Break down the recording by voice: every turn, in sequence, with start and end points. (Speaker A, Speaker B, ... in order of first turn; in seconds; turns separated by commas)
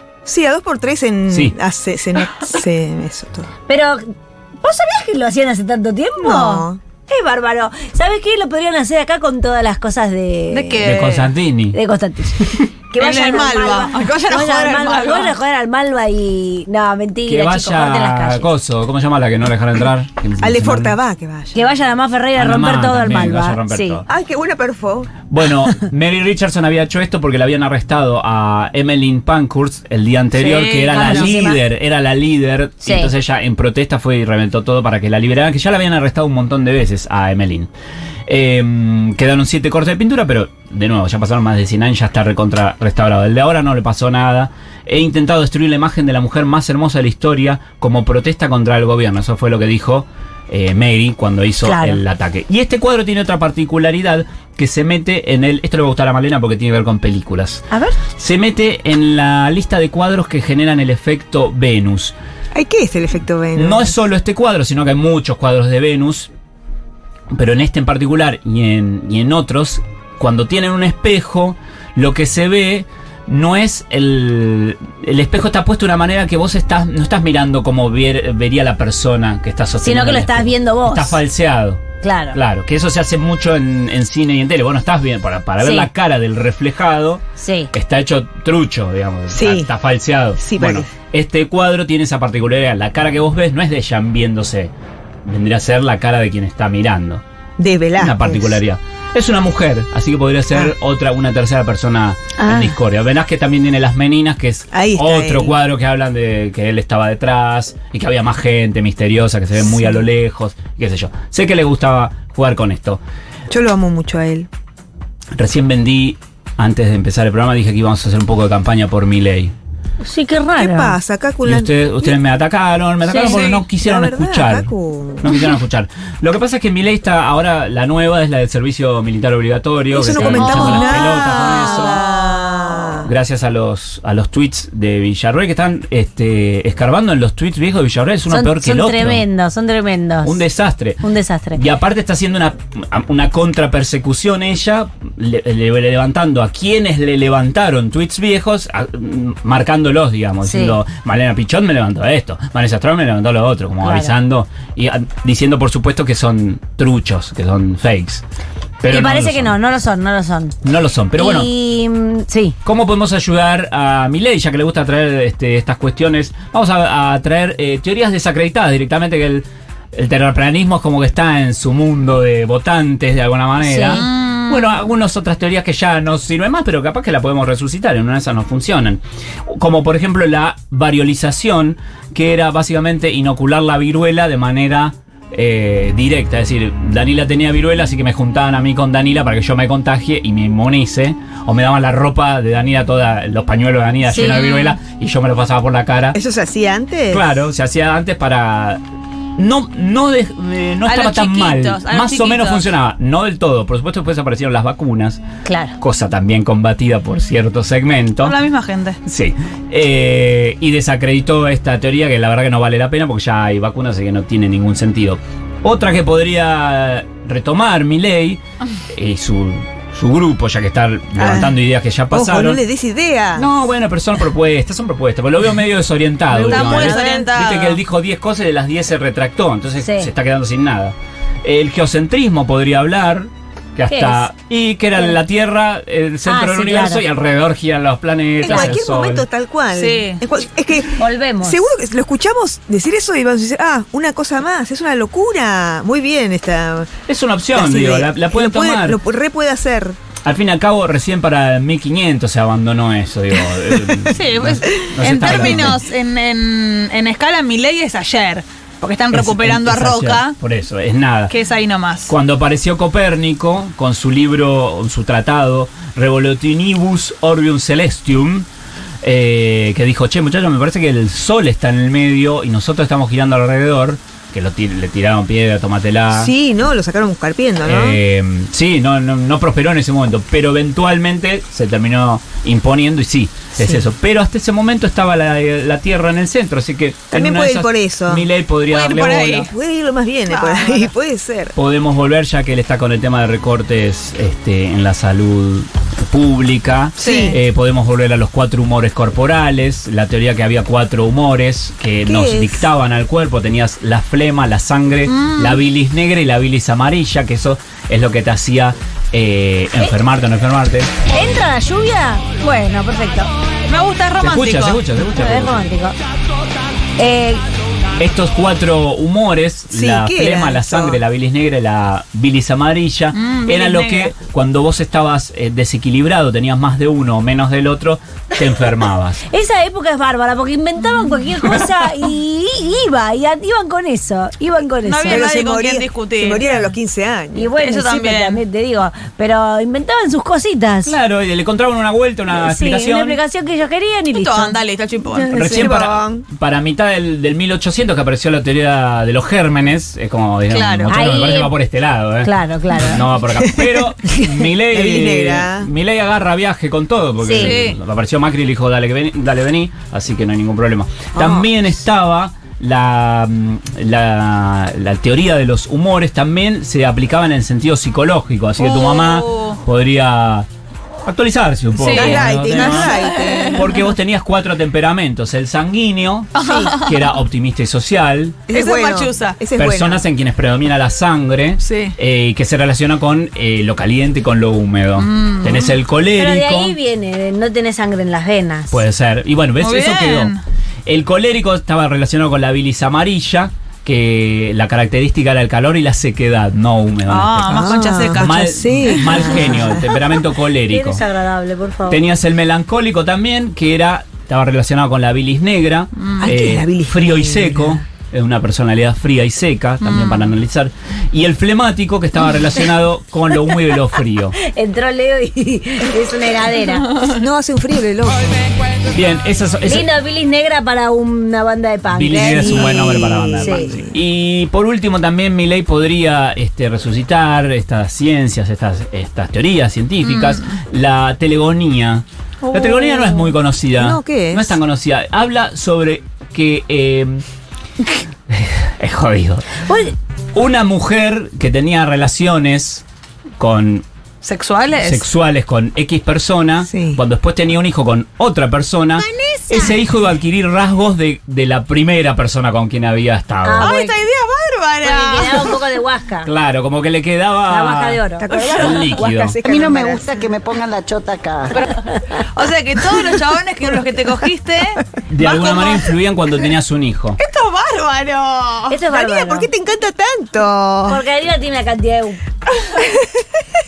Speaker A: 0.2-3.5, Speaker B: 1.3-1.6, Speaker C: 3.7-4.1, Speaker C: 4.6-10.8, Speaker A: 6.2-6.8, Speaker D: 10.5-11.3, Speaker B: 10.8-11.8, Speaker C: 11.7-18.5, Speaker D: 13.0-15.4, Speaker B: 17.2-21.0, Speaker A: 20.4-21.6, Speaker C: 21.5-24.0, Speaker B: 22.3-24.0, Speaker A: 24.1-25.2, Speaker B: 25.2-37.7, Speaker D: 30.3-31.3, Speaker C: 30.9-31.6, Speaker A: 31.1-31.4, Speaker C: 32.8-33.1, Speaker B: 38.3-62.1, Speaker C: 51.6-52.0, Speaker C: 57.7-58.0, Speaker A: 62.5-63.9, Speaker B: 63.5-66.3, Speaker B: 67.3-94.7, Speaker C: 79.8-81.2, Speaker C: 82.0-82.4, Speaker C: 85.6-85.9, Speaker C: 87.4-87.7, Speaker A: 89.3-89.7, Speaker A: 90.4-91.0, Speaker B: 95.2-97.2, Speaker A: 97.6-98.6, Speaker B: 98.0-113.0, Speaker A: 102.4-102.8, Speaker A: 104.7-105.6, Speaker A: 109.6-110.0, Speaker A: 113.5-114.5, Speaker B: 115.3-119.5, Speaker C: 120.0-121.0, Speaker A: 120.6-122.2, Speaker B: 121.4-132.0, Speaker C: 123.1-123.4, Speaker D: 123.1-123.6, Speaker A: 123.6-125.3, Speaker A: 129.9-133.1, Speaker D: 130.1-133.0, Speaker B: 133.1-139.2, Speaker C: 138.3-140.4, Speaker B: 140.2-141.0, Speaker C: 141.0-141.6, Speaker B: 141.5-158.2, Speaker C: 150.4-150.8, Speaker C: 153.8-154.1, Speaker B: 158.8-159.6, Speaker C: 158.9-160.6, Speaker B: 160.6-161.5, Speaker C: 161.1-162.6, Speaker B: 162.6-196.2, Speaker C: 173.6-174.0, Speaker D: 173.9-174.8, Speaker C: 194.0-194.8, Speaker A: 196.1-197.3, Speaker B: 197.1-198.8, Speaker B: 199.4-205.2, Speaker D: 200.8-202.7, Speaker C: 205.4-205.8, Speaker B: 205.8-208.4, Speaker D: 208.2-209.0, Speaker B: 209.1-218.4, Speaker B: 218.9-222.6, Speaker A: 221.2-223.5, Speaker B: 223.3-239.3, Speaker C: 226.3-227.3, Speaker D: 226.5-227.8, Speaker C: 229.8-230.1, Speaker C: 233.9-234.3, Speaker C: 236.2-237.0, Speaker A: 238.4-247.0, Speaker C: 238.5-238.8, Speaker D: 239.7-240.2, Speaker C: 240.9-241.6, Speaker B: 247.1-249.0, Speaker A: 247.5-250.0, Speaker B: 250.1-255.8, Speaker D: 254.1-260.4, Speaker A: 254.9-255.6, Speaker B: 259.1-261.3, Speaker D: 261.3-262.1, Speaker B: 262.1-268.5, Speaker B: 269.0-276.3, Speaker A: 276.1-278.0, Speaker B: 277.6-289.4, Speaker A: 283.5-283.9, Speaker A: 287.1-288.3, Speaker D: 288.7-289.5, Speaker A: 289.0-291.5, Speaker D: 290.3-290.9, Speaker B: 291.6-310.9, Speaker A: 297.0-297.4, Speaker D: 297.0-297.4, Speaker A: 302.0-302.7, Speaker D: 305.1-305.6, Speaker C: 311.1-313.3, Speaker D: 313.7-314.8, Speaker B: 314.2-315.7, Speaker C: 315.1-315.9, Speaker C: 317.0-317.4, Speaker B: 318.0-329.2, Speaker A: 319.7-321.0, Speaker D: 323.1-324.1, Speaker C: 329.3-335.2, Speaker D: 334.8-336.6, Speaker A: 335.1-337.5, Speaker C: 337.3-340.9, Speaker D: 337.6-338.4, Speaker B: 340.8-343.2, Speaker C: 342.3-344.6, Speaker D: 344.1-345.3, Speaker C: 345.1-345.7, Speaker B: 345.3-370.5, Speaker A: 345.3-346.3, Speaker D: 350.5-351.3, Speaker C: 350.9-351.5, Speaker C: 352.2-353.1, Speaker A: 353.3-355.7, Speaker C: 357.2-357.6, Speaker D: 357.3-357.8, Speaker A: 361.1-361.5, Speaker D: 368.6-369.6, Speaker B: 371.1-378.4, Speaker A: 371.7-373.8, Speaker D: 371.8-373.8, Speaker A: 376.4-376.8, Speaker D: 376.4-376.9, Speaker A: 378.5-380.1, Speaker D: 378.5-379.4, Speaker B: 379.5-386.8, Speaker D: 381.6-381.9, Speaker D: 384.9-385.8, Speaker C: 386.1-388.8, Speaker B: 388.7-390.3, Speaker D: 389.6-390.4, Speaker B: 390.9-397.6, Speaker D: 397.1-399.4, Speaker A: 397.4-400.2, Speaker B: 398.2-401.0, Speaker C: 400.6-402.0, Speaker B: 401.9-414.4, Speaker D: 406.0-406.4, Speaker A: 406.2-407.8, Speaker D: 409.8-410.3, Speaker C: 414.4-417.0, Speaker A: 417.0-418.6, Speaker B: 418.8-419.9, Speaker C: 419.6-423.8, Speaker B: 421.9-437.2, Speaker A: 422.1-423.9, Speaker D: 430.0-430.5, Speaker D: 432.4-433.3, Speaker A: 433.7-434.6, Speaker B: 438.3-439.6, Speaker C: 439.6-439.9, Speaker B: 440.3-442.8, Speaker B: 443.4-443.8, Speaker D: 444.2-445.1, Speaker B: 444.8-453.7, Speaker A: 446.6-447.0, Speaker C: 449.0-449.8, Speaker C: 453.4-454.0, Speaker D: 453.6-455.6, Speaker C: 454.8-456.3, Speaker B: 456.2-459.4, Speaker C: 457.5-458.7, Speaker A: 458.2-460.1, Speaker D: 458.3-458.9, Speaker E: 459.4-461.6, Speaker D: 461.5-466.0, Speaker B: 465.1-467.2, Speaker D: 467.2-468.8, Speaker C: 468.7-469.5, Speaker A: 468.8-471.0, Speaker C: 470.9-472.2, Speaker A: 472.6-473.4